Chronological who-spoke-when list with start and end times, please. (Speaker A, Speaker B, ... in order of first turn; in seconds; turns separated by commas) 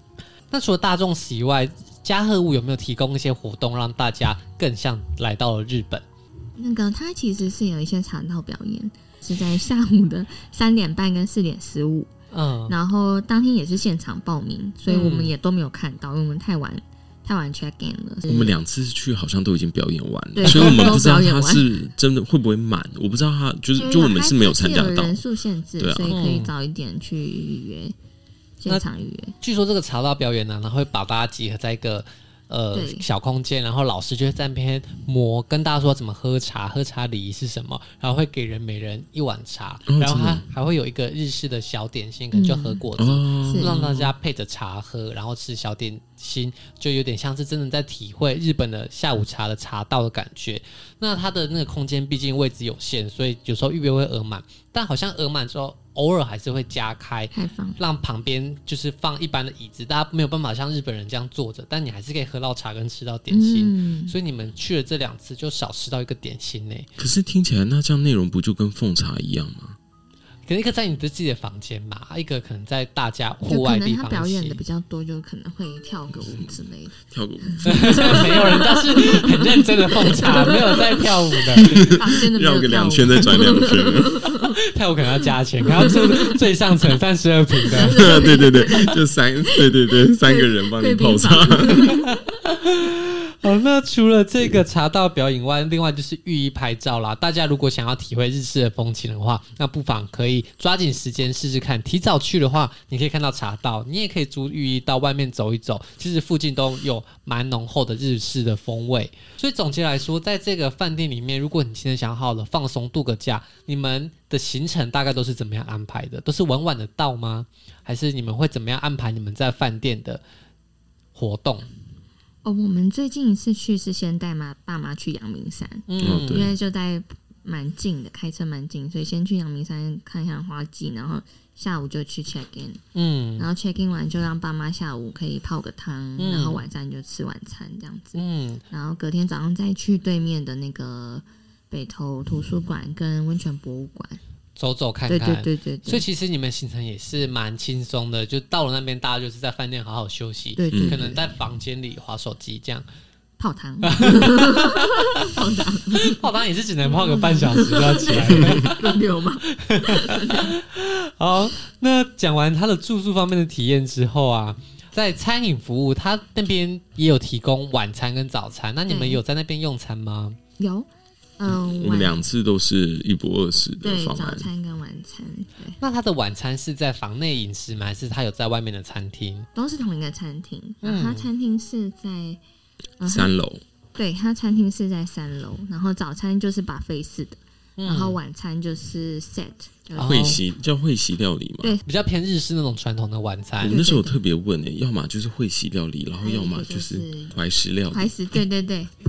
Speaker A: 0.5-6.0, Speaker B: 6.6-12.1, Speaker A: 12.3-12.8, Speaker B: 12.7-18.6, Speaker A: 14.9-15.3, Speaker C: 18.3-25.2, Speaker B: 20.4-21.7, Speaker A: 20.4-21.0, Speaker B: 23.8-27.9, Speaker C: 25.8-26.2, Speaker A: 26.1-26.5, Speaker B: 28.6-29.4, Speaker A: 29.4-66.9, Speaker B: 32.7-33.1, Speaker C: 39.9-40.5, Speaker B: 42.3-42.8, Speaker C: 43.0-44.1, Speaker B: 43.4-43.8, Speaker B: 57.3-57.8, Speaker B: 63.3-64.2, Speaker C: 67.0-69.8, Speaker A: 70.5-74.6, Speaker B: 73.5-84.6, Speaker C: 76.2-76.5, Speaker C: 77.1-78.6, Speaker A: 77.6-81.9, Speaker C: 81.6-84.3, Speaker A: 84.3-88.2, Speaker B: 85.7-86.4, Speaker B: 87.6-92.4, Speaker C: 87.8-92.0, Speaker A: 91.9-120.2, Speaker A: 121.2-121.7, Speaker B: 122.4-132.8, Speaker A: 125.9-126.5, Speaker C: 126.0-126.6, Speaker A: 132.9-133.5, Speaker B: 133.4-138.2, Speaker A: 136.2-136.6, Speaker A: 138.2-138.6, Speaker B: 138.7-144.2, Speaker A: 144.6-152.8, Speaker B: 145.1-146.1, Speaker B: 150.6-151.2, Speaker C: 150.7-151.0, Speaker B: 153.4-156.2, Speaker A: 153.8-155.3, Speaker A: 156.0-159.0, Speaker B: 156.8-160.5, Speaker A: 159.5-170.4, Speaker B: 168.9-169.2, Speaker B: 170.6-170.9, Speaker B: 171.4-172.2, Speaker C: 171.5-174.5, Speaker B: 173.8-175.8, Speaker A: 175.8-179.5, Speaker B: 179.6-182.4, Speaker A: 180.8-181.3, Speaker B: 183.0-183.3, Speaker C: 183.1-183.6, Speaker B: 184.0-190.4, Speaker A: 187.8-188.2, Speaker A: 190.0-190.4, Speaker C: 190.0-191.8, Speaker A: 191.8-193.8, Speaker C: 193.6-198.2, Speaker B: 193.7-194.2, Speaker B: 196.2-197.4, Speaker B: 197.9-198.9